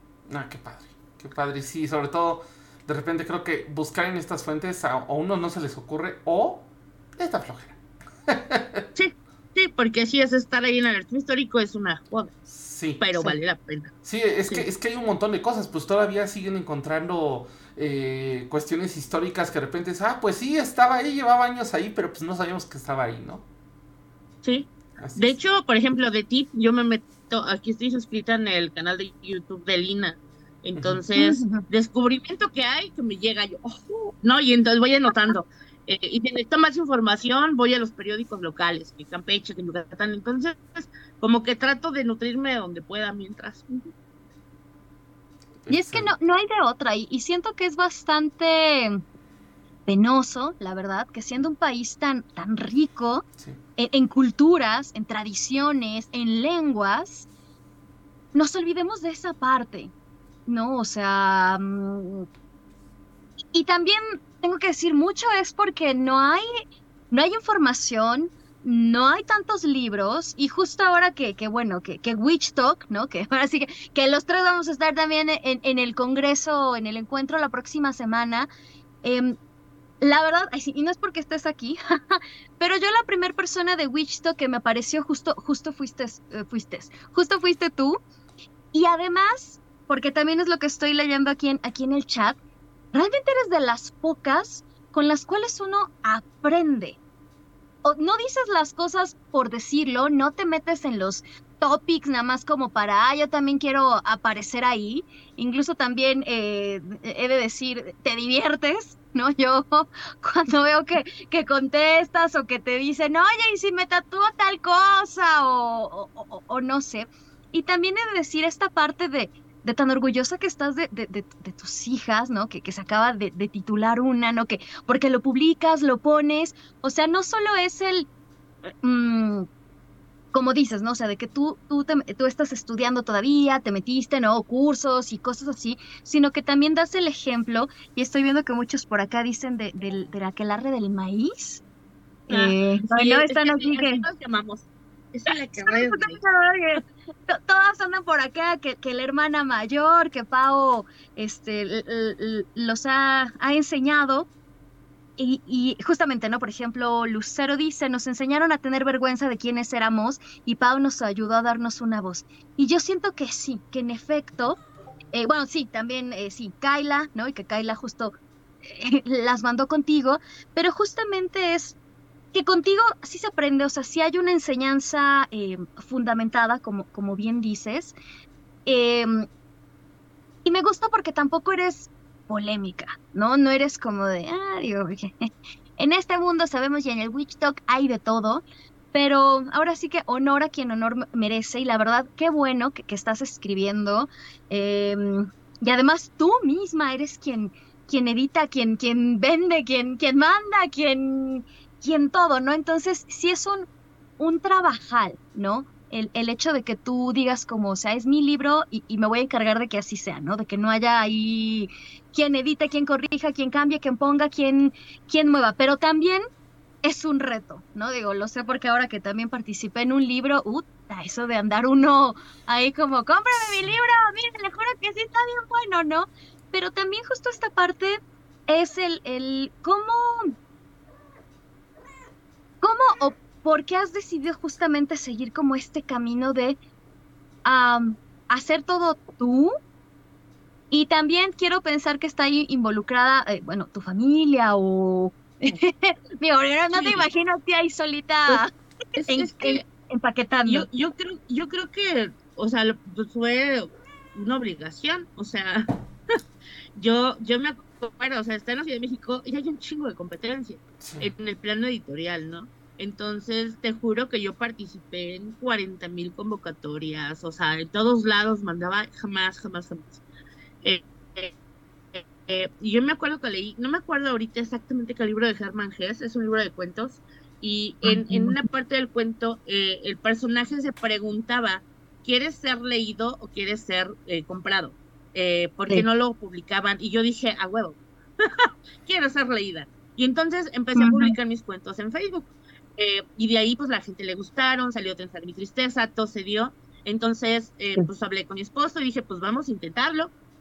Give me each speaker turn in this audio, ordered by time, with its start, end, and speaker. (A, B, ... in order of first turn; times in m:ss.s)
0:00.3-0:08.8 A
0:09.0-0:12.4 B
0:12.5-0:13.4 A
0:13.0-0:13.9 B
0:14.0-0:23.4 A
0:24.4-0:43.8 B
0:25.0-0:25.4 A
0:30.8-0:31.0 A
0:31.2-0:31.6 C
0:45.6-0:46.1 A
0:45.7-0:49.0 C
0:49.9-0:53.2 C
0:53.8-0:57.3 C
0:58.3-0:59.9 C
1:00.5-1:02.3 C
1:03.5-1:06.5 C
1:07.1-1:18.5 C
1:19.0-1:19.4 C
1:20.0-1:28.0 C
1:28.7-1:32.4 C
1:32.9-1:37.0 C
1:37.8-2:08.1 C
2:08.8-2:09.5 C
2:10.3-2:21.6 C
2:22.3-2:26.2 B
2:22.3-2:24.0 C
2:25.6-2:34.3 C
2:35.2-2:44.6 C
2:45.1-2:48.2 C
2:48.7-2:51.8 C
2:52.3-2:58.0 C
2:58.7-2:59.3 C
3:00.4-3:23.7 C
3:24.2-3:36.2 C
3:36.8-3:50.4 C
3:43.3-3:43.8 A
3:52.6-3:56.6 C
3:57.4-3:59.5 C
4:00.7-4:08.5 C
4:06.7-4:07.0 B
4:09.0-4:09.6 B
4:09.1-4:10.7 C
4:10.5-4:15.7 B
4:16.8-4:30.0 B
4:20.8-4:21.1 A
4:30.6-4:31.3 B
4:31.9-5:00.1 B
4:37.9-4:38.4 C
4:50.8-4:51.1 C